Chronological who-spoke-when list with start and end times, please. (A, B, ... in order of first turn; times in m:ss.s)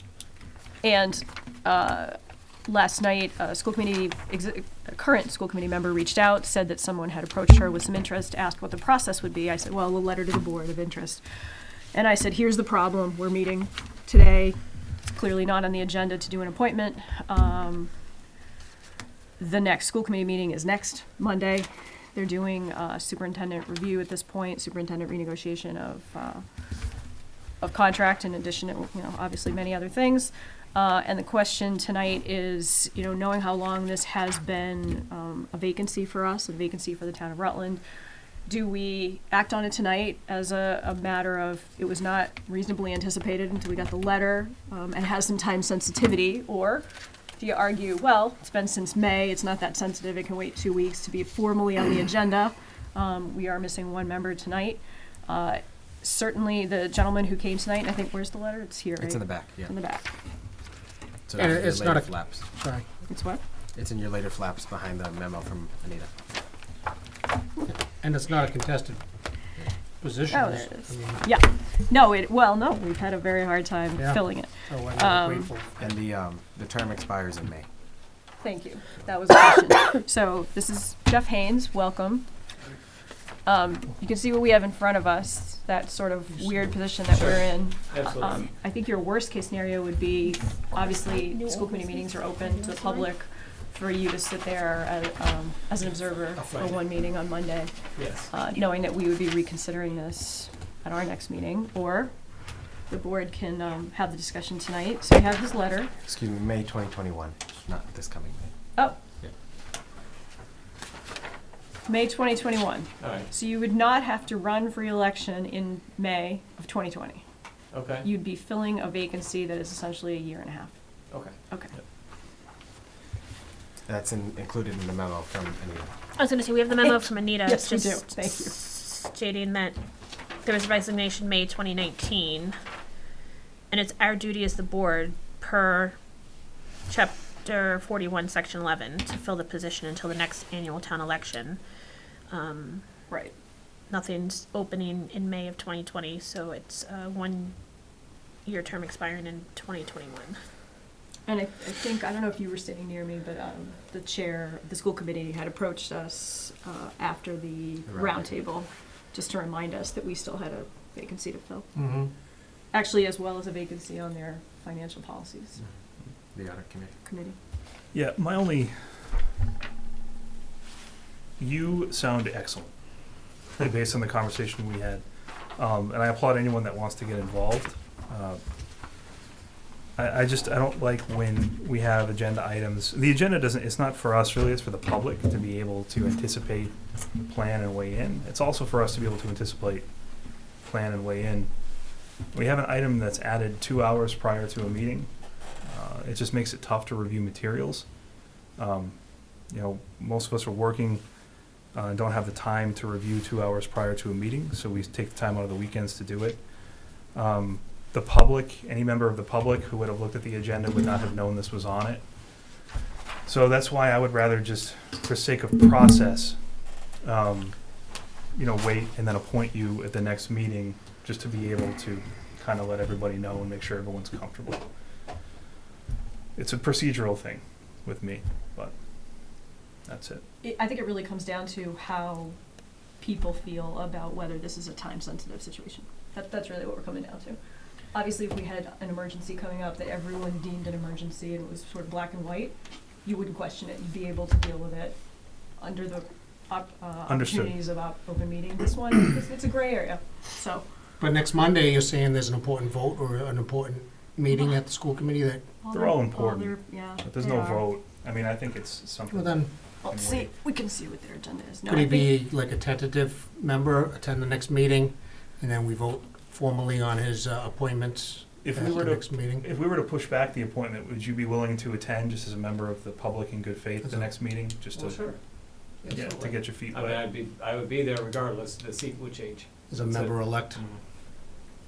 0:00.8-0:11.2 A
0:11.9-0:17.9 A
0:19.4-0:26.4 A
0:27.6-0:37.8 A
0:38.4-0:46.8 A
0:47.4-1:00.2 A
0:59.0-0:59.7 B
1:01.3-1:02.4 B
1:01.4-1:02.8 C
1:03.1-1:03.4 A
1:03.7-1:06.1 B
1:07.7-1:09.0 C
1:10.0-1:11.2 C
1:10.3-1:15.5 A
1:14.0-1:15.8 C
1:15.8-1:17.7 B
1:18.4-1:22.2 A
1:23.4-1:42.1 A
1:27.1-1:28.5 D
1:30.8-1:33.1 E
1:36.4-1:36.8 D
1:38.0-1:38.3 D
1:42.9-1:45.9 A
1:46.0-1:48.5 B
1:51.8-1:57.2 A
1:53.0-1:53.3 D
1:57.7-1:58.1 D
1:58.0-2:00.7 A
2:01.1-2:01.8 D
2:01.5-2:01.7 A
2:03.8-2:05.9 B
2:06.2-2:12.5 E
2:06.8-2:08.6 A
2:13.7-2:16.0 E
2:16.9-2:21.6 E
2:22.3-2:22.8 E
2:23.1-2:23.3 A
2:23.9-2:30.4 E
2:31.2-2:41.8 A
2:37.9-2:38.3 B
2:41.8-2:42.1 C
2:42.7-2:45.6 A
2:46.3-2:46.9 B
2:47.0-2:47.4 A
2:47.9-2:49.0 F
2:51.4-2:52.7 F
2:53.6-2:55.0 F
2:55.5-2:58.4 F
3:00.0-3:09.9 F
3:10.5-3:17.9 F
3:18.5-3:21.0 F
3:21.7-3:32.1 F
3:33.2-3:36.4 F
3:37.0-3:44.6 F
3:46.4-3:48.8 F
3:49.8-3:50.2 F
3:50.4-3:52.4 A
3:53.0-3:57.4 A
3:57.9-4:05.0 A
4:05.6-4:10.6 A
4:07.1-4:07.6 F
4:11.0-4:15.4 C
4:15.6-4:17.6 A
4:15.7-4:20.3 F
4:19.1-4:19.5 C
4:19.8-4:22.1 A
4:21.6-4:29.4 C
4:28.4-4:35.0 F
4:33.8-4:34.2 C
4:34.8-4:35.2 D
4:35.7-4:37.0 F
4:35.8-4:36.1 C
4:36.1-4:40.8 D
4:39.7-4:40.6 C